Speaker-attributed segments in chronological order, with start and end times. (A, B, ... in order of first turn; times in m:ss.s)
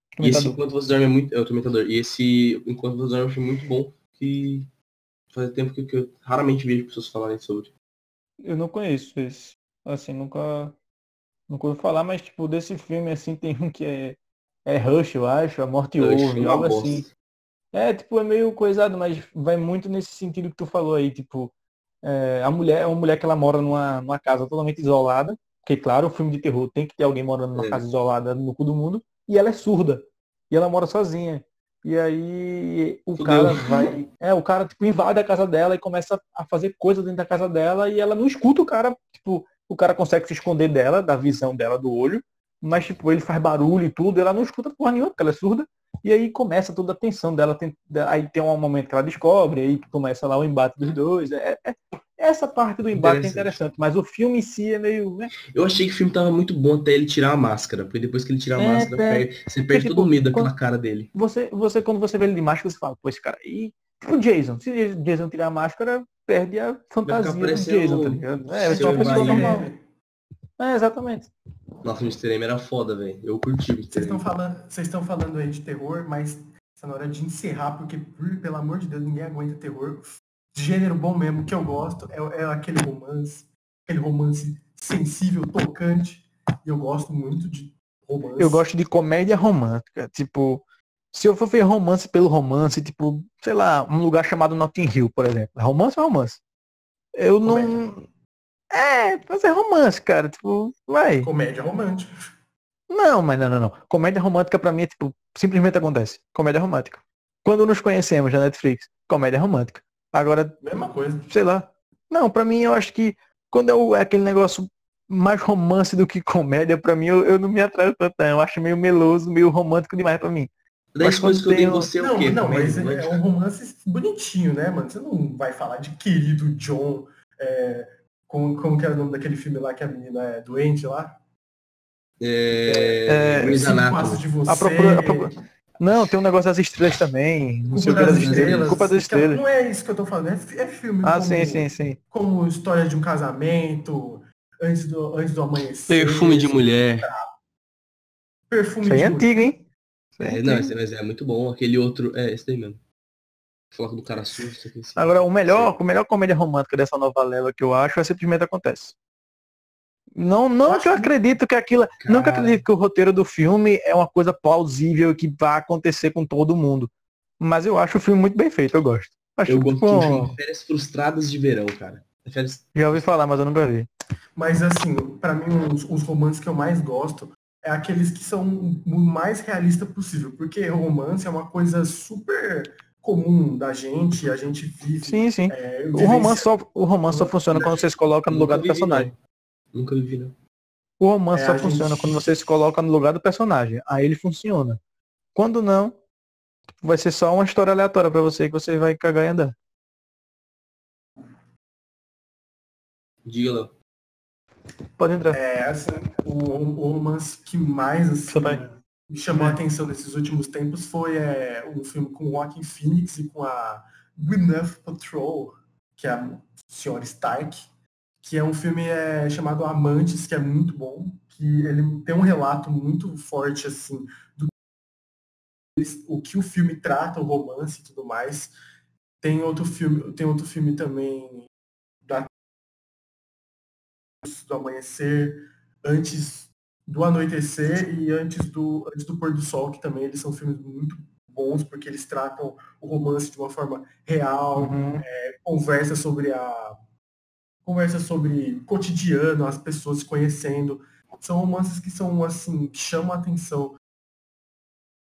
0:00.2-0:00.6 A
0:00.2-0:04.7 B
0:05.3-0:07.7 B
0:08.4-0:10.8 A
0:11.5-0:17.0 A
0:16.0-0:17.1 B
0:17.7-0:55.3 A
0:27.5-0:27.8 B
0:33.2-0:33.9 B
0:52.9-0:53.6 B
0:55.5-1:01.1 B
0:58.6-1:00.5 A
1:01.1-1:09.7 A
1:07.0-1:09.6 B
1:08.7-1:09.8 C
1:10.6-1:11.3 A
1:11.8-1:14.2 B
1:13.9-1:28.6 C
1:28.4-1:36.4 A
1:37.1-1:38.0 A
1:37.4-1:37.9 C
1:38.7-1:41.3 A
1:41.2-1:42.1 C
1:42.9-1:50.6 A
1:50.6-1:51.3 C
1:51.3-2:01.9 A
2:00.9-2:03.2 B
2:02.0-2:11.2 C
2:12.2-2:14.2 B
2:12.6-2:15.3 C
2:13.1-2:13.6 A
2:14.5-2:19.4 A
2:17.7-2:27.3 C
2:17.9-2:18.8 B
2:21.0-2:22.0 A
2:25.9-2:27.1 B
2:28.5-2:29.3 C
2:28.8-2:29.6 A
2:30.2-2:30.7 A
2:30.2-2:32.8 B
2:33.7-2:35.8 B
2:35.0-2:39.0 A
2:40.1-2:50.4 A
2:40.6-2:41.1 C
2:42.0-2:42.6 B
2:49.5-2:53.0 B
2:52.7-2:53.9 A
2:54.4-3:06.5 C
3:05.0-3:09.1 A
3:07.1-3:07.6 C
3:08.3-3:09.2 B
3:09.7-3:10.3 B
3:11.0-3:14.8 A
3:11.3-3:12.3 C
3:15.3-3:16.0 A
3:16.8-3:19.5 A
3:23.2-3:23.7 B
3:25.0-3:25.4 A
3:25.3-3:37.6 C
3:28.3-3:28.6 A
3:38.2-3:44.5 C
3:45.8-3:48.5 C
3:49.2-3:51.5 C
3:54.2-4:06.8 C
4:04.6-4:05.0 A
4:07.6-4:13.8 C